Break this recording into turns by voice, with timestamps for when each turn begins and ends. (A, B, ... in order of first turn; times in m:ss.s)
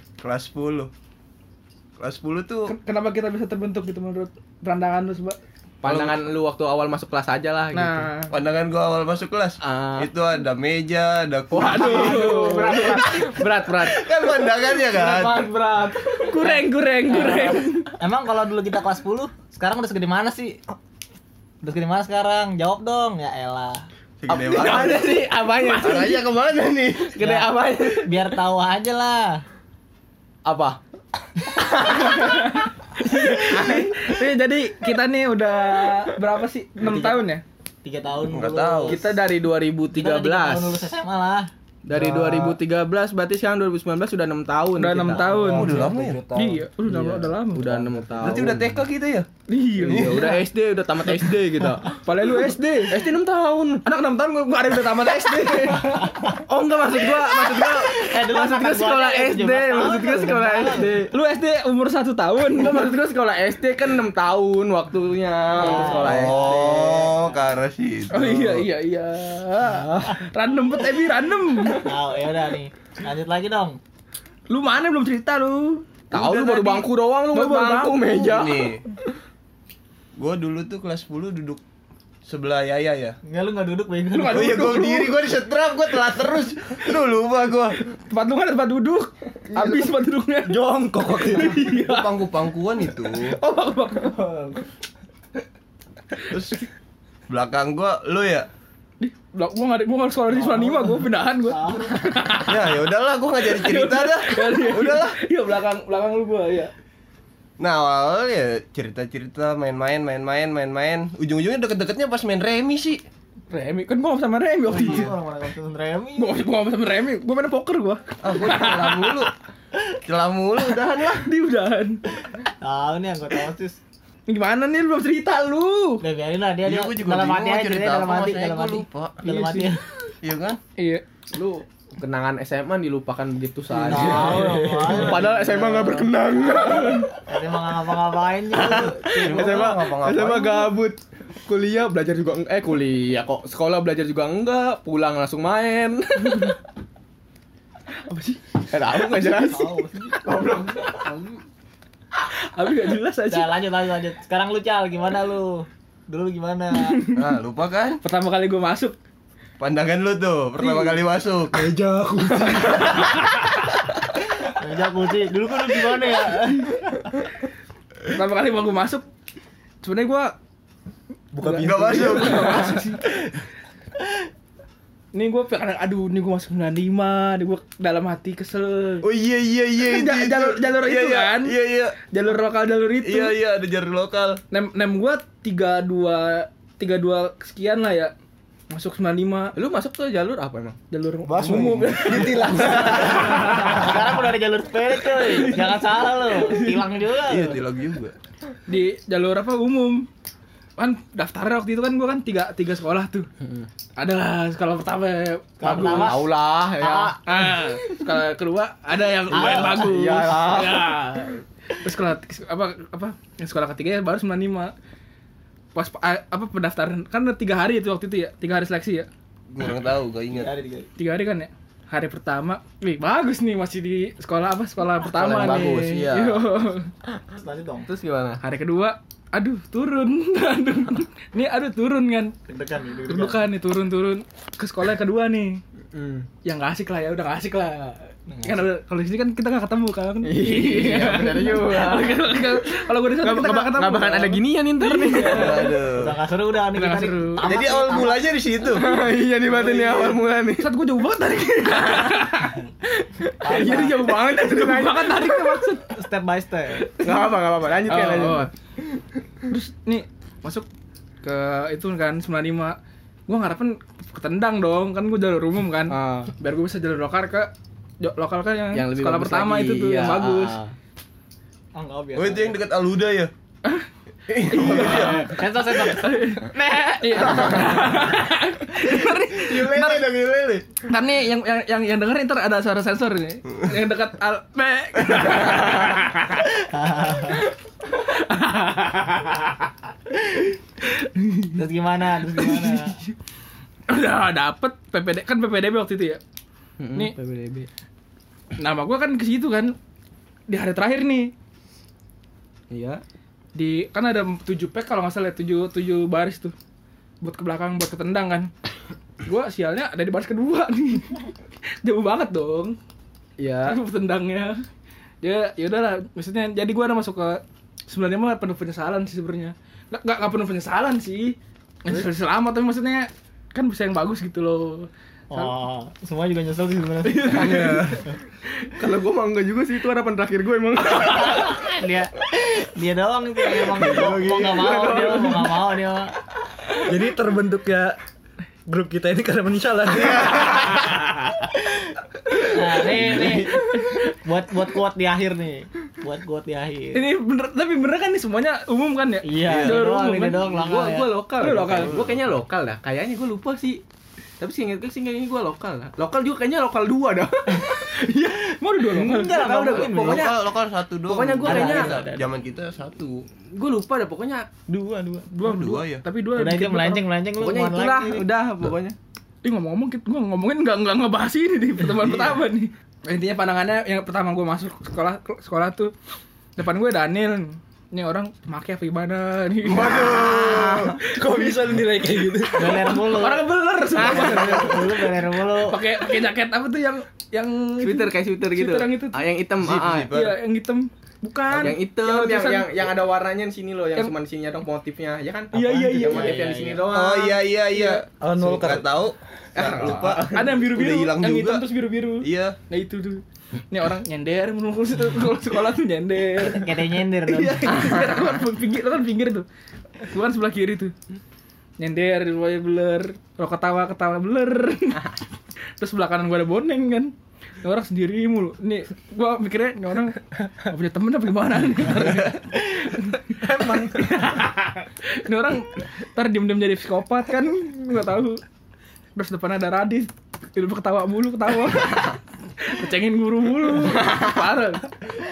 0:00.2-0:00.9 A
0:02.0-0:02.7 A
0:02.7-0:05.4 B
0:05.8-0:08.1 C
0:05.8-0:06.2 A
0:07.7-0:08.3 B
0:08.3-0:12.8 A
0:09.6-0:10.1 C
0:11.5-0:13.5 B
0:11.5-0:14.1 C
0:13.8-0:15.5 A
0:15.0-0:20.6 D
0:15.1-0:15.8 C
0:16.2-0:17.9 B
0:21.6-0:23.9 D
0:24.2-0:25.2 A
0:24.3-0:25.9 C
0:24.5-0:26.2 B
0:25.7-0:27.1 A
0:27.2-0:27.5 D
0:27.2-0:28.1 B
0:27.3-0:28.0 C
0:28.0-0:29.4 D
0:30.5-0:30.8 C
0:31.5-0:32.1 C
0:31.7-0:37.4 B
0:33.5-0:34.1 C
0:36.8-0:37.3 D
0:37.8-0:39.2 D
0:38.3-0:39.1 A
0:38.9-0:40.9 C
0:39.9-0:41.5 D
0:41.9-0:45.4 C
0:41.9-0:42.6 E
0:44.8-0:47.7 B
0:45.2-0:48.5 E
0:45.4-0:46.2 A
0:46.9-0:48.7 C
0:48.2-0:49.3 A
0:49.5-0:50.4 B
0:49.8-0:50.4 A
0:49.8-0:52.0 C
0:51.9-0:53.1 B
0:52.9-0:53.8 C
0:53.9-0:59.0 B
0:56.5-1:01.1 C
0:57.9-1:01.0 D
1:01.1-1:02.8 B
1:02.6-1:07.2 C
1:05.6-1:07.4 D
1:05.8-1:08.6 A
1:08.1-1:11.9 B
1:11.8-1:13.8 D
1:14.5-1:16.0 B
1:16.1-1:18.7 C
1:16.1-1:16.9 A
1:17.3-1:18.3 B
1:18.1-1:18.8 A
1:20.2-1:21.6 A
1:22.3-1:23.2 A
1:23.2-1:24.9 D
1:24.1-1:25.2 B
1:24.3-1:27.8 A
1:28.1-1:30.6 B
1:30.4-1:31.6 E
1:31.2-1:32.3 B
1:31.5-1:33.4 A
1:33.1-1:34.2 B
1:34.0-1:34.6 E
1:36.3-1:36.6 A
1:37.3-1:38.5 A
1:39.0-1:42.9 B
1:40.4-1:40.9 D
1:41.5-1:41.9 D
1:42.5-1:45.2 A
1:43.4-1:46.7 B
1:47.6-1:53.0 A
1:53.5-1:55.1 B
1:54.7-1:56.3 D
1:54.8-1:55.1 A
1:56.2-1:59.3 B
1:58.2-1:59.3 A
2:00.1-2:01.3 A
2:00.6-2:02.0 B
2:02.3-2:03.8 D
2:04.3-2:06.0 B
2:06.0-2:09.8 D
2:06.6-2:09.2 A
2:09.2-2:09.7 B
2:10.2-2:10.6 A
2:10.8-2:11.6 B
2:11.9-2:17.1 C
2:13.8-2:16.0 D
2:13.9-2:15.2 E
2:16.5-2:17.1 B
2:17.1-2:19.7 D
2:18.6-2:26.6 C
2:19.1-2:20.7 A
2:28.1-2:29.3 B
2:28.7-2:31.1 C
2:29.2-2:30.3 D
2:31.0-2:31.4 A
2:32.3-2:33.6 B
2:33.3-2:37.0 D
2:36.9-2:37.2 B
2:37.1-2:38.0 A
2:38.0-2:39.0 B
2:39.6-2:41.6 A
2:40.6-2:41.0 B
2:41.5-2:43.0 E
2:42.5-2:43.4 B
2:44.5-2:47.1 D
2:48.1-2:49.0 B
2:49.8-2:50.3 B
2:51.3-2:52.8 E
2:51.4-2:53.0 B
2:51.5-2:52.9 A
2:55.1-2:59.1 B
2:59.0-3:02.0 A
2:59.8-3:03.4 B
3:03.0-3:04.4 A
3:04.5-3:08.1 B
3:08.7-3:09.5 B
3:09.6-3:10.8 C
3:10.9-3:13.9 B
3:11.2-3:13.7 E
3:11.4-3:13.2 A
3:13.5-3:17.6 D
3:15.0-3:16.8 B
3:17.3-3:18.2 A
3:18.7-3:20.1 B
3:20.8-3:23.3 B
3:24.0-3:26.2 B
3:25.6-3:26.3 D
3:25.7-3:27.2 C
3:26.8-3:27.9 D
3:27.3-3:34.7 B
3:29.3-3:30.9 C
3:29.3-3:29.9 D
3:35.8-3:39.1 B
3:39.5-3:40.5 A
3:40.3-3:40.9 D
3:41.0-3:46.9 B
3:45.1-3:46.4 A
3:45.4-3:45.6 C
3:47.3-3:47.9 D
3:47.9-3:48.4 C
3:48.4-3:52.3 B
3:52.5-3:53.5 D
3:53.1-3:55.6 B
3:55.9-3:56.3 C
3:56.4-4:05.7 B
3:58.3-3:58.7 D
4:00.2-4:02.4 C
4:03.2-4:05.5 C
4:05.2-4:08.3 D
4:05.2-4:06.2 A
4:06.8-4:07.4 B
4:07.4-4:08.8 A
4:08.8-4:10.7 C
4:09.6-4:10.1 D
4:10.6-4:15.9 B
4:13.4-4:14.0 D
4:13.5-4:15.3 C
4:15.9-4:16.9 D
4:17.0-4:18.5 C
4:17.0-4:17.3 B
4:17.9-4:18.5 B
4:19.5-4:20.7 B
4:21.2-4:22.8 B
4:23.3-4:30.6 B
4:25.9-4:26.3 C
4:28.7-4:30.7 C
4:31.8-4:32.6 D
4:32.2-4:33.3 A
4:34.3-4:35.3 A
4:34.5-4:40.0 B
4:34.6-4:37.7 D
4:38.8-4:40.6 A
4:40.9-4:46.4 B
4:46.5-4:47.5 D
4:48.0-4:49.7 B
4:50.8-4:51.6 B
4:51.6-4:53.0 D
4:52.4-4:52.8 B
4:53.9-4:56.2 B
4:56.8-4:57.7 C
4:58.6-4:59.7 B
5:00.5-5:01.3 B
5:02.7-5:03.0 C
5:03.6-5:06.5 B
5:07.2-5:08.5 B
5:09.2-5:11.2 B
5:11.8-5:12.8 B
5:13.4-5:13.8 C
5:13.7-5:14.6 B
5:15.2-5:25.5 B
5:25.3-5:27.6 D
5:27.0-5:28.1 B
5:27.4-5:28.0 E
5:27.4-5:27.8 A
5:28.8-5:31.6 C
5:31.4-5:36.1 D
5:33.8-5:35.5 C
5:33.9-5:34.1 A
5:36.9-5:38.0 E
5:38.7-5:40.6 E
5:42.5-5:47.0 D
5:43.0-5:43.4 A
5:43.2-5:44.0 B
5:46.9-5:50.5 B
5:49.2-5:51.1 D
5:49.5-5:49.8 A
5:50.3-5:53.8 C
5:51.4-5:52.1 B
5:51.6-5:52.2 A
5:54.4-5:57.7 C
5:57.6-5:59.9 B
5:58.9-6:00.3 D
5:59.1-6:00.5 C
5:59.9-6:03.2 A
6:01.1-6:02.1 C
6:01.4-6:02.2 D
6:03.5-6:04.5 C
6:04.7-6:05.3 D
6:05.3-6:07.0 B
6:05.4-6:06.0 A
6:06.4-6:08.2 D
6:07.4-6:09.0 C
6:09.4-6:15.9 B
6:12.0-6:12.4 A
6:16.6-6:20.2 B
6:19.6-6:21.0 A
6:19.9-6:20.9 C
6:21.0-6:23.0 E
6:21.1-6:29.2 B
6:22.6-6:25.8 D
6:24.0-6:24.8 C
6:27.8-6:30.1 C
6:29.6-6:30.3 A
6:30.1-6:32.7 B
6:31.6-6:37.4 C
6:35.5-6:36.5 B
6:35.6-6:36.0 E
6:36.1-6:36.9 D
6:36.9-6:41.6 A
6:38.2-6:39.0 E
6:39.6-6:40.3 C
6:40.3-6:49.5 B
6:42.2-6:42.6 A
6:46.4-6:47.8 D
6:50.1-6:50.9 B
6:51.8-6:55.2 B
6:55.8-7:08.4 B
7:03.4-7:04.4 E
7:09.2-7:14.9 B
7:14.0-7:14.3 C